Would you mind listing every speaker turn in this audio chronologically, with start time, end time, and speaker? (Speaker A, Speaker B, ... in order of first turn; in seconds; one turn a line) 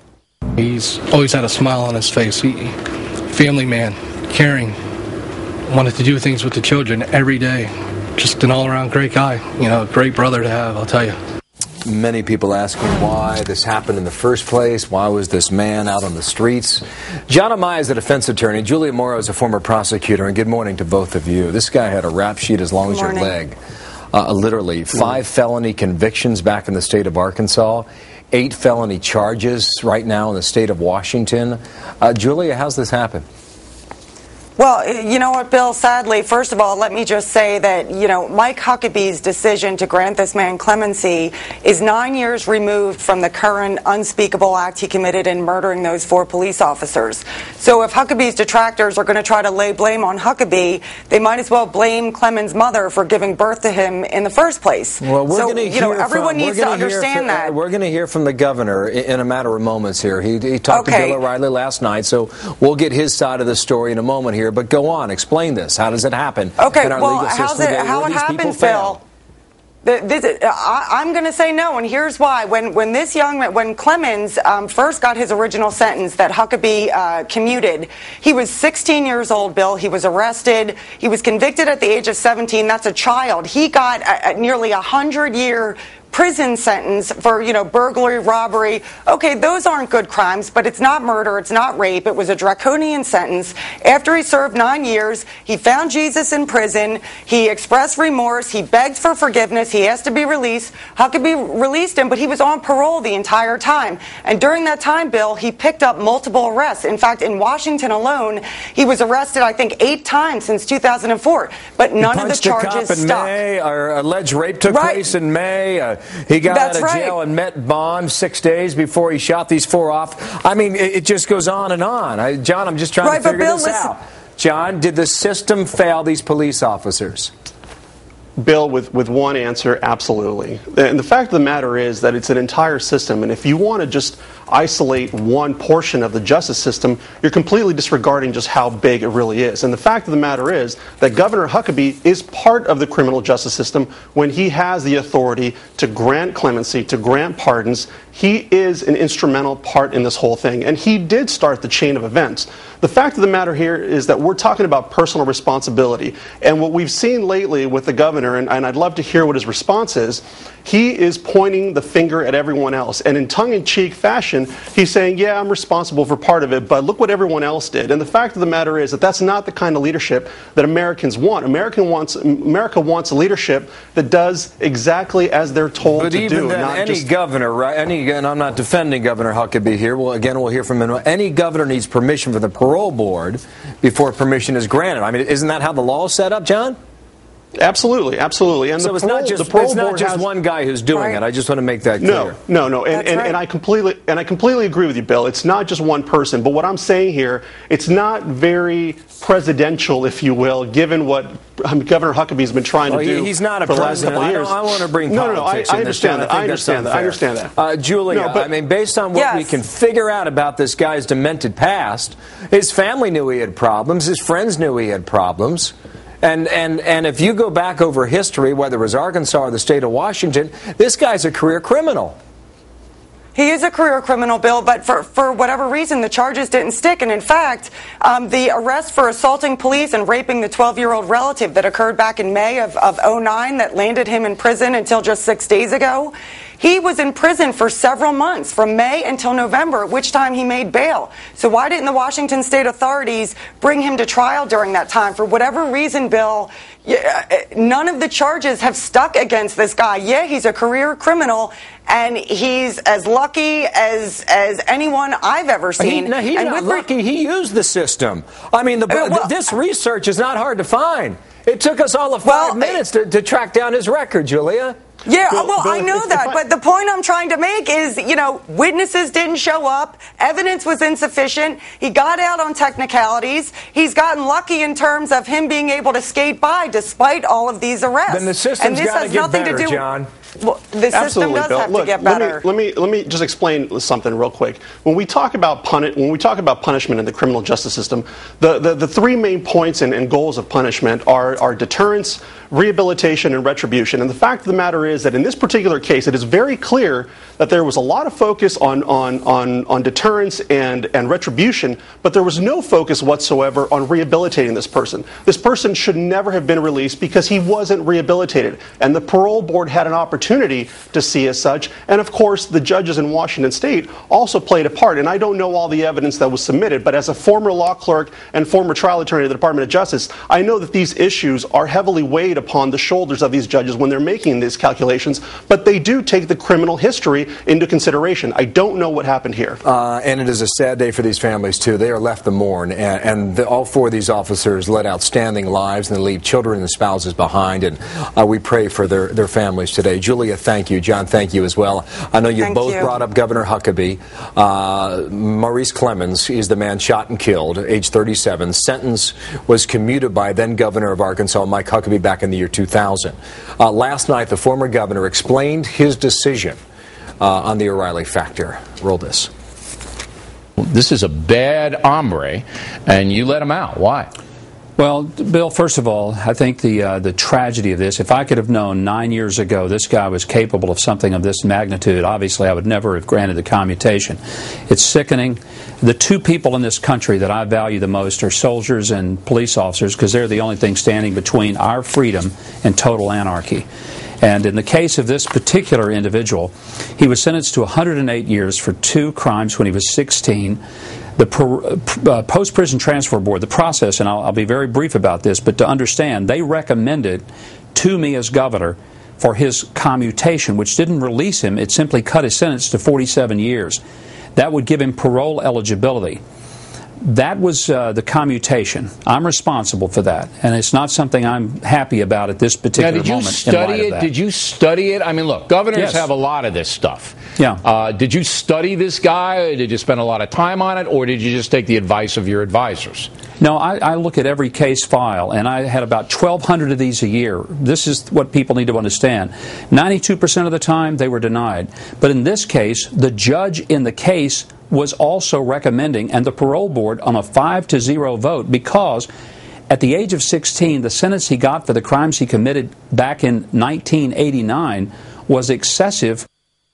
Speaker A: 0.6-2.8
Speaker A: 3.3-4.8
Speaker A: 5.7-11.2
Speaker B: 11.8-23.6
Speaker C: 22.8-23.3
Speaker B: 24.1-33.3
Speaker C: 34.6-57.5
Speaker B: 55.0-69.0
Speaker C: 60.7-61.2
Speaker C: 66.6-69.0
Speaker C: 69.8-113.3
Speaker B: 112.0-127.3
Speaker C: 114.7-115.1
Speaker C: 116.5-117.2
Speaker C: 123.0-123.9
Speaker D: 128.4-177.1
Speaker B: 175.9-186.8
Speaker D: 187.6-190.3
Speaker B: 188.8-192.3
Speaker C: 190.9-191.2
Speaker D: 192.0-207.5
Speaker C: 192.9-193.3
Speaker B: 202.9-222.2
Speaker D: 208.1-208.5
Speaker C: 209.1-209.5
Speaker C: 223.3-256.9
Speaker B: 255.8-264.8
Speaker C: 258.9-259.3
Speaker C: 262.2-262.8
Speaker C: 265.1-279.9
Speaker D: 265.3-266.4
Speaker B: 278.1-280.1
Speaker C: 280.4-282.4
Speaker D: 280.9-329.6
Speaker B: 329.6-356.6
Speaker C: 342.4-342.9
Speaker B: 357.2-359.3
Speaker E: 360.6-364.1
Speaker F: 364.8-383.7
Speaker F: 384.2-390.6
Speaker F: 391.2-403.8
Speaker F: 404.4-406.2
Speaker F: 407.0-414.1
Speaker E: 412.8-423.1
Speaker F: 415.7-416.1
Speaker F: 423.4-439.1
Speaker F: 439.7-446.2